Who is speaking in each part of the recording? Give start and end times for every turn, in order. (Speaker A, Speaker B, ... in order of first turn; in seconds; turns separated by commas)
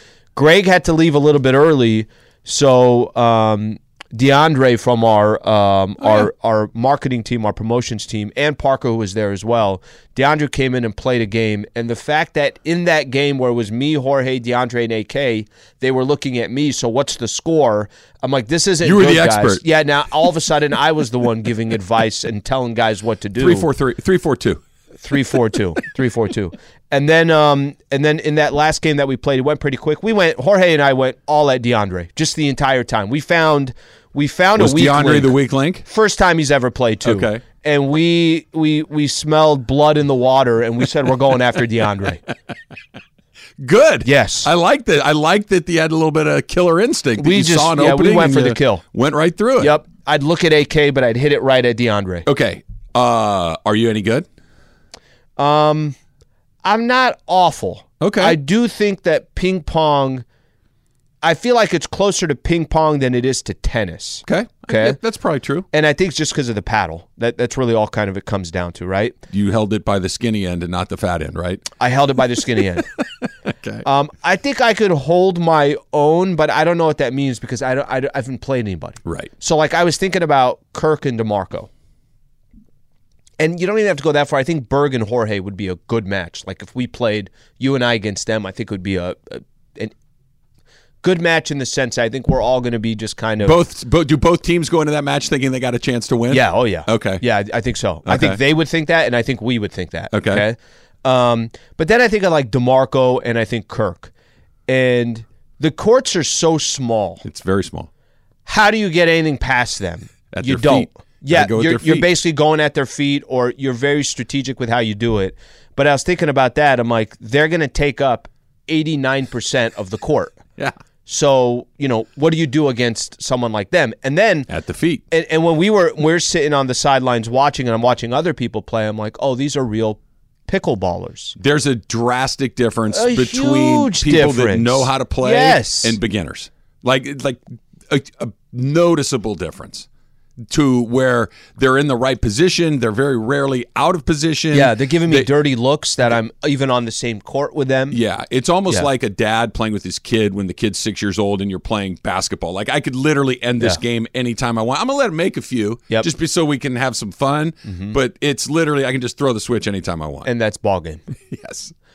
Speaker A: 0.3-23.7, Speaker B: 6.0-6.3, Speaker B: 18.8-19.6, Speaker B: 23.4-24.6, Speaker A: 25.0-35.4, Speaker B: 34.6-35.9, Speaker A: 35.9-42.2, Speaker B: 37.0-37.4, Speaker B: 43.6-49.7, Speaker A: 44.0-44.5, Speaker A: 47.2-48.8, Speaker A: 49.6-52.3, Speaker B: 52.3-54.3, Speaker A: 55.4-56.0, Speaker A: 56.6-60.2, Speaker B: 58.0-58.4, Speaker A: 61.2-65.0, Speaker B: 64.3-65.7, Speaker A: 65.7-69.2, Speaker B: 69.3-71.7, Speaker A: 71.8-72.9, Speaker B: 73.5-73.8, Speaker A: 73.8-81.7, Speaker A: 83.4-89.9, Speaker A: 91.0-93.6, Speaker B: 93.4-97.2, Speaker A: 96.3-104.1, Speaker B: 98.1-98.4, Speaker B: 100.1-100.4, Speaker A: 104.7-107.2, Speaker B: 107.2-107.9, Speaker A: 108.5-120.4, Speaker B: 110.3-112.1, Speaker A: 121.1-124.5, Speaker B: 124.5-125.0, Speaker A: 125.1-131.4, Speaker B: 131.4-139.9, Speaker A: 132.9-136.0, Speaker B: 140.5-145.3, Speaker A: 144.5-148.0, Speaker B: 147.9-160.3, Speaker A: 157.7-158.0, Speaker A: 160.2-161.0, Speaker B: 161.3-161.7